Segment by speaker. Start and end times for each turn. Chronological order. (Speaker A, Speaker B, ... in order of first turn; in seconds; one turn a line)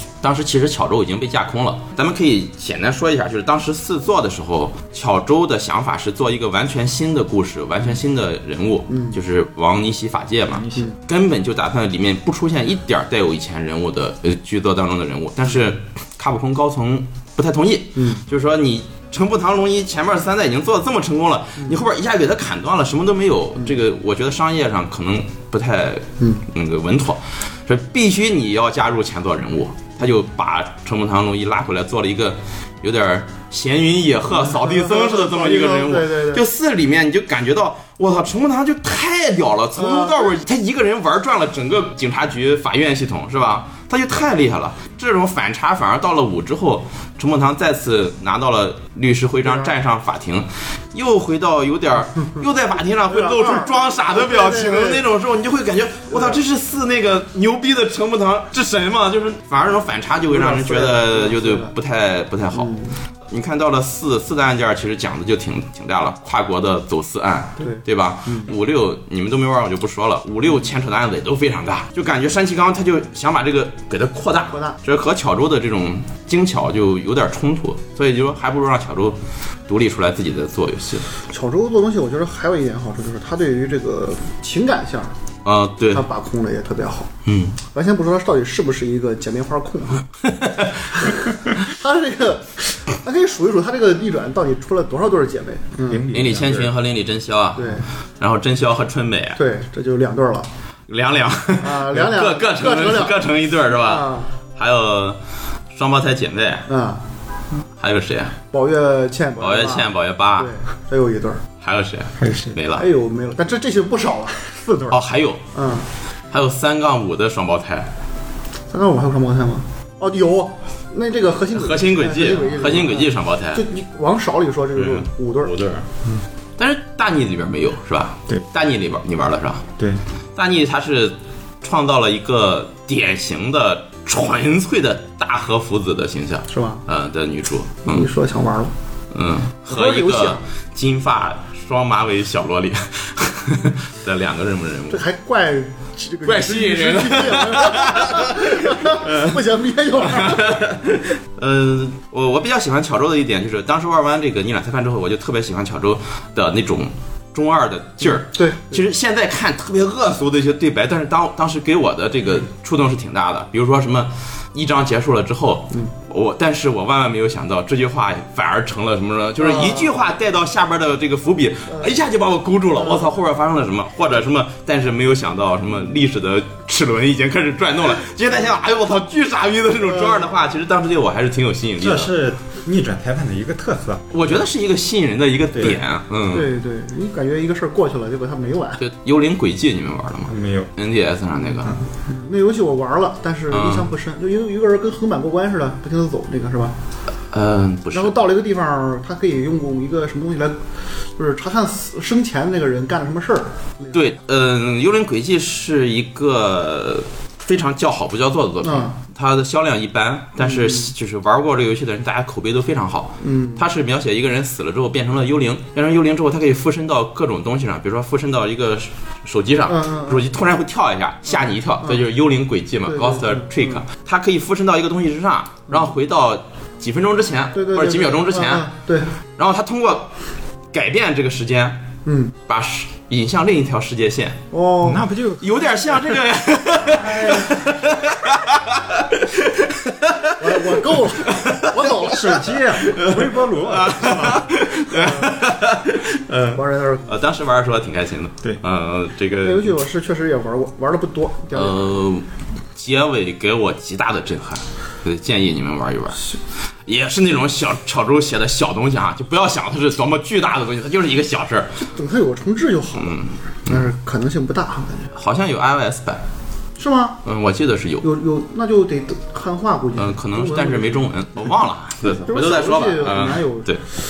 Speaker A: 0.2-62.7
Speaker B: 8.9-9.2
Speaker B: 18.0-18.2
Speaker B: 34.3-36.4
Speaker B: 39.8-40.3
Speaker B: 49.5-49.7
Speaker B: 53.1-55.0
Speaker B: 56.1-56.4
Speaker B: 60.3-61.7
Speaker B: 62.5-62.9
Speaker A: 63.3-79.2
Speaker B: 67.6-68.5
Speaker A: 79.7-81.1
Speaker B: 81.3-85.1
Speaker A: 85.5-86.0
Speaker B: 85.9-87.1
Speaker A: 87.2-87.6
Speaker B: 87.7-90.0
Speaker A: 90.3-90.7
Speaker B: 91.0-96.0
Speaker C: 95.9-96.7
Speaker A: 96.1-99.4
Speaker B: 97.6-97.8
Speaker B: 99.4-100.5
Speaker A: 100.9-105.2
Speaker B: 101.6-103.2
Speaker B: 103.7-104.3
Speaker A: 105.7-106.7
Speaker B: 106.7-107.0
Speaker A: 107.8-108.4
Speaker B: 108.5-111.4
Speaker A: 109.4-110.5
Speaker A: 111.6-112.9
Speaker C: 112.2-112.6
Speaker B: 112.8-114.9
Speaker A: 114.9-115.4
Speaker B: 115.5-115.9
Speaker A: 116.3-117.9
Speaker B: 118.7-125.5
Speaker A: 121.5-123.6
Speaker A: 124.8-125.9
Speaker A: 126.6-129.7
Speaker A: 130.4-138.1
Speaker B: 136.5-136.8
Speaker B: 137.9-138.7
Speaker A: 139.1-145.0
Speaker B: 139.7-140.4
Speaker B: 144.9-150.6
Speaker A: 146.2-149.3
Speaker A: 150.0-182.1
Speaker B: 158.1-158.8
Speaker B: 169.4-169.9
Speaker B: 172.8-173.1
Speaker B: 179.8-180.3
Speaker C: 181.8-184.2
Speaker A: 184.1-186.5
Speaker B: 185.6-188.8
Speaker A: 188.8-191.7
Speaker C: 190.3-190.7
Speaker B: 192.1-196.7
Speaker A: 193.5-193.9
Speaker A: 197.3-198.1
Speaker B: 197.9-200.6
Speaker B: 201.2-203.9
Speaker A: 203.9-228.7
Speaker B: 208.6-208.9
Speaker B: 210.4-210.9
Speaker B: 213.2-213.6
Speaker B: 219.7-220.2
Speaker B: 222.9-223.8
Speaker B: 227.5-229.1
Speaker A: 229.4-230.1
Speaker A: 230.7-231.8
Speaker B: 232.1-232.3
Speaker A: 232.5-234.4
Speaker B: 234.5-235.0
Speaker C: 234.8-236.2
Speaker A: 235.4-242.2
Speaker B: 236.9-237.7
Speaker B: 240.4-242.5
Speaker C: 242.0-244.5
Speaker A: 242.8-249.8
Speaker B: 244.9-245.4
Speaker B: 246.6-247.1
Speaker B: 249.4-252.0
Speaker A: 251.5-256.2
Speaker A: 256.9-261.8
Speaker B: 261.8-265.1
Speaker A: 263.0-263.9
Speaker A: 265.1-266.2
Speaker B: 266.8-267.2
Speaker A: 267.2-268.1
Speaker B: 268.0-271.5
Speaker A: 270.0-273.8
Speaker B: 272.1-273.8